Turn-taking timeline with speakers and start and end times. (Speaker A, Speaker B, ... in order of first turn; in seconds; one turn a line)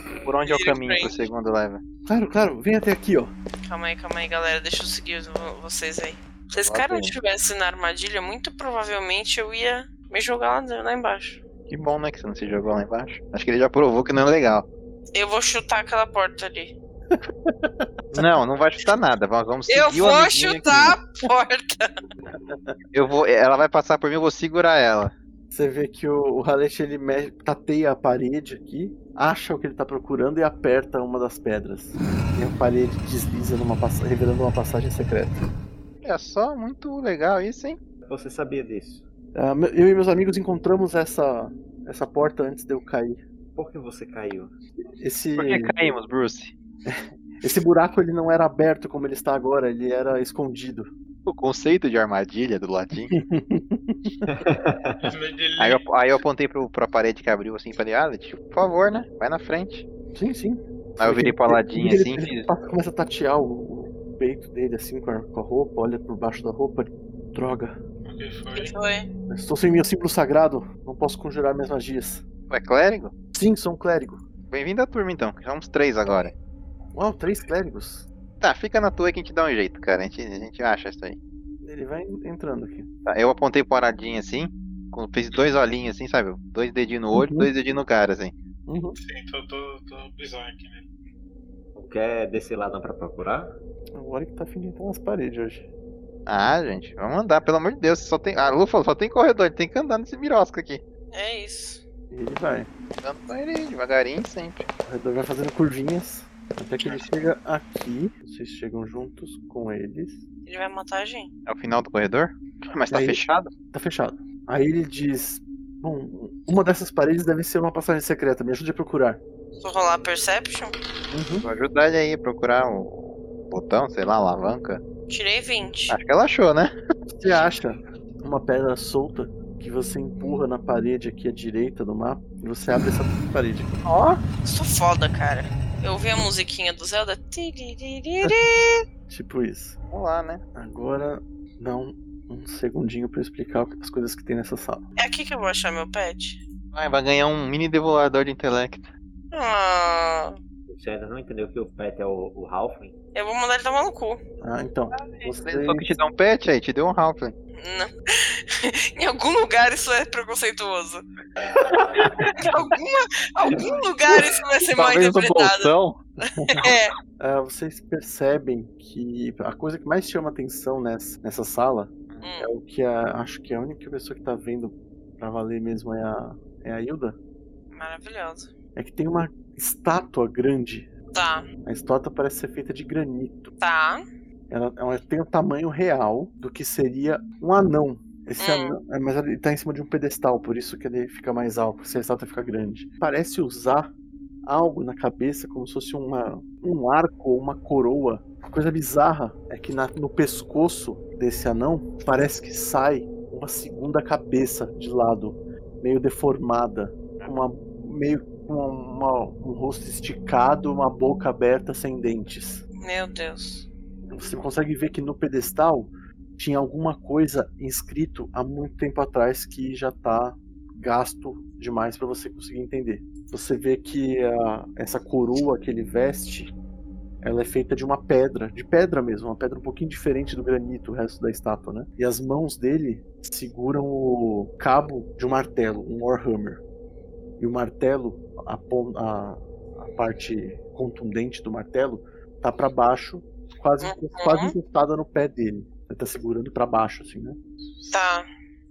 Speaker A: 0.2-1.8
Speaker B: 0.5-1.1
Speaker C: 2.1-3.3
Speaker B: 3.6-11.4
Speaker A: 6.5-7.2
Speaker A: 11.7-14.7
Speaker B: 15.1-16.8
Speaker C: 17.1-18.3
Speaker A: 18.1-21.0
Speaker B: 19.7-22.0
Speaker C: 22.5-22.8
Speaker A: 22.9-25.1
Speaker C: 25.5-35.4
Speaker A: 36.0-37.8
Speaker D: 38.0-39.1
Speaker C: 39.4-43.2
Speaker D: 43.6-44.5
Speaker C: 45.0-45.7
Speaker A: 45.4-46.5
Speaker C: 46.9-50.9
Speaker A: 51.3-53.1
Speaker C: 53.1-54.2
Speaker D: 54.3-55.1
Speaker E: 55.0-55.8
Speaker A: 55.6-59.9
Speaker C: 60.1-67.8
Speaker A: 61.0-62.5
Speaker E: 68.1-68.7
Speaker B: 68.5-69.1
Speaker C: 69.3-72.2
Speaker A: 72.5-73.1
Speaker C: 73.3-74.2
Speaker A: 74.5-76.3
Speaker C: 76.9-78.1
Speaker A: 78.4-81.2
Speaker C: 81.6-82.9
Speaker A: 83.1-88.3
Speaker C: 87.1-87.5
Speaker C: 88.7-89.0
Speaker E: 89.0-90.9
Speaker D: 91.8-93.6
Speaker C: 93.9-95.6
Speaker A: 96.3-100.8
Speaker B: 101.1-101.8
Speaker C: 102.1-102.7
Speaker A: 103.0-104.7
Speaker C: 104.8-110.2
Speaker B: 110.5-111.3
Speaker A: 111.5-113.5
Speaker C: 112.9-113.2
Speaker C: 113.7-119.2
Speaker B: 119.6-120.8
Speaker C: 121.1-121.5
Speaker A: 121.4-124.8
Speaker B: 125.1-126.0
Speaker A: 125.9-126.8
Speaker C: 127.1-133.8
Speaker A: 133.8-134.2
Speaker B: 134.4-138.8
Speaker C: 139.1-139.8
Speaker A: 139.9-140.4
Speaker C: 140.6-144.8
Speaker B: 145.0-146.4
Speaker A: 146.7-148.9
Speaker B: 149.3-150.4
Speaker D: 150.7-152.9
Speaker B: 153.2-154.2
Speaker C: 154.4-155.9
Speaker A: 155.0-157.3
Speaker B: 157.6-161.0
Speaker B: 162.3-166.9
Speaker A: 164.7-166.0
Speaker C: 166.4-166.7
Speaker C: 167.2-177.2
Speaker B: 172.2-172.5
Speaker B: 177.7-178.5
Speaker C: 178.8-180.9
Speaker B: 181.1-181.5
Speaker C: 181.6-183.5
Speaker B: 183.6-184.1
Speaker C: 184.5-193.9
Speaker B: 188.4-188.8
Speaker C: 194.4-212.6
Speaker B: 212.8-213.7
Speaker C: 214.1-226.5
Speaker C: 227.2-236.6
Speaker C: 237.4-247.4
Speaker B: 243.8-244.5
Speaker B: 247.9-248.3